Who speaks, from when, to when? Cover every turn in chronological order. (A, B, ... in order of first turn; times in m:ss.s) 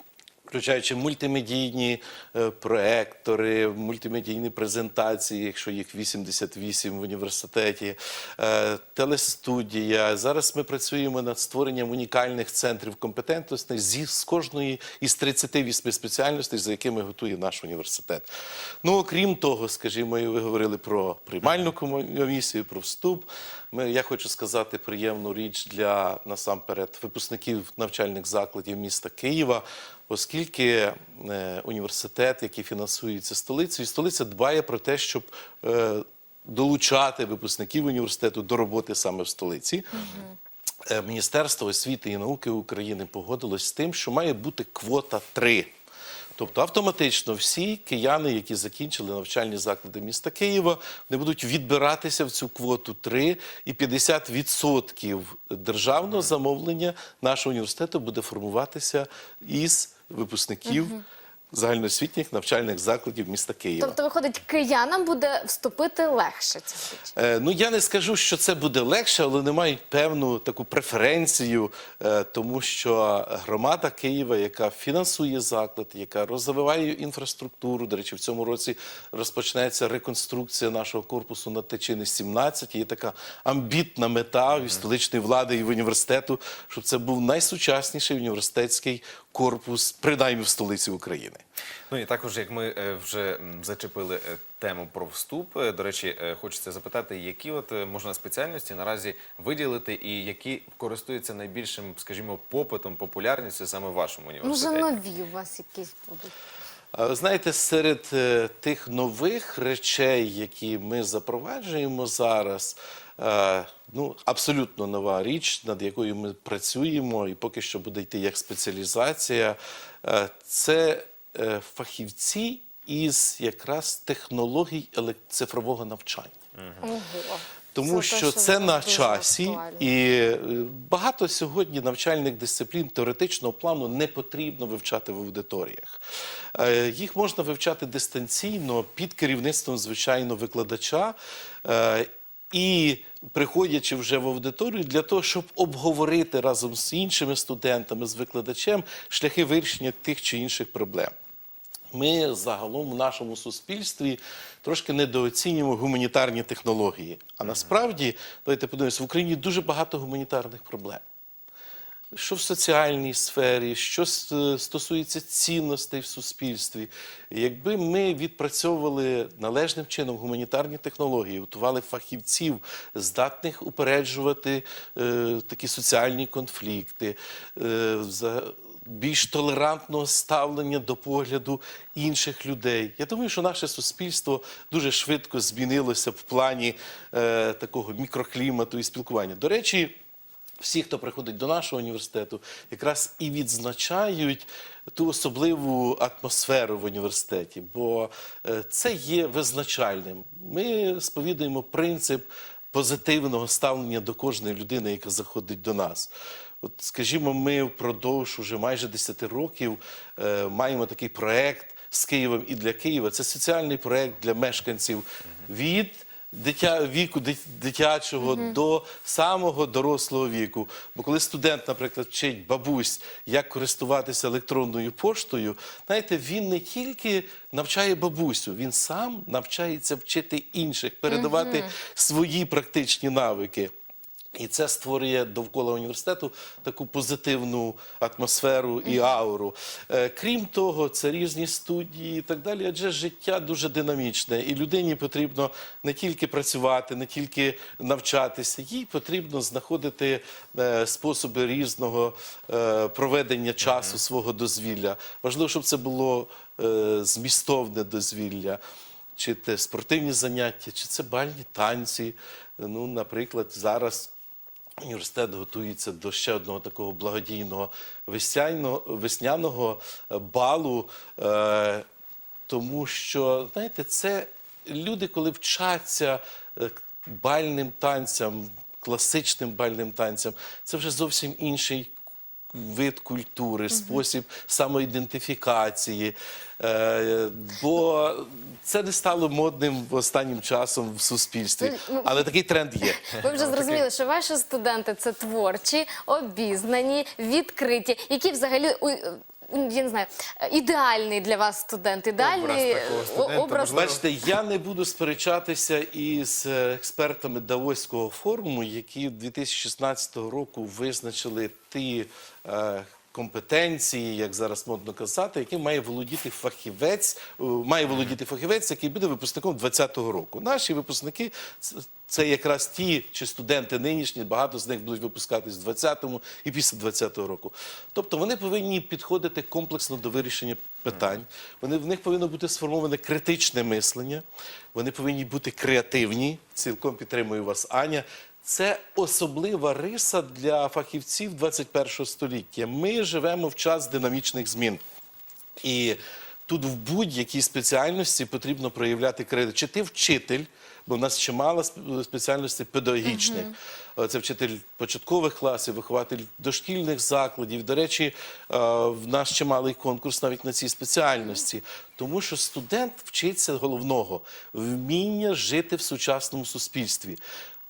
0:00.5-0:18.3 A
0:18.8-0:40.0 A
0:40.0-0:40.3 B
0:40.9-0:45.7 A
0:46.4-1:00.9 A
1:00.7-1:01.0 B
1:01.5-1:03.9 A
1:03.8-1:07.1 B
1:07.2-1:31.4 A
1:31.9-1:44.9 C
1:44.4-1:46.3 B
1:46.9-2:06.3 A
2:06.6-2:06.9 C
2:06.8-2:09.9 B
2:07.8-2:16.0 A
2:16.5-2:31.1 A
2:31.9-2:41.0 A
2:42.1-3:10.0 A
3:10.6-3:53.7 A
3:38.2-3:38.6 B
3:51.1-3:51.8 B
3:54.4-4:18.6 A
3:58.8-3:59.1 B
4:13.6-4:13.9 C
4:19.2-4:24.1 A
4:24.8-4:31.9 A
4:32.5-4:41.9 A
4:42.5-4:52.9 A
4:43.7-4:44.0 B
4:51.6-4:52.3 B
4:52.8-5:03.9 B
4:53.2-4:53.8 C
5:02.2-5:04.0 C
5:03.8-5:34.2 A
5:34.8-5:44.8 A
5:45.6-5:53.4 A
5:53.0-5:53.5 B
5:54.0-6:07.2 A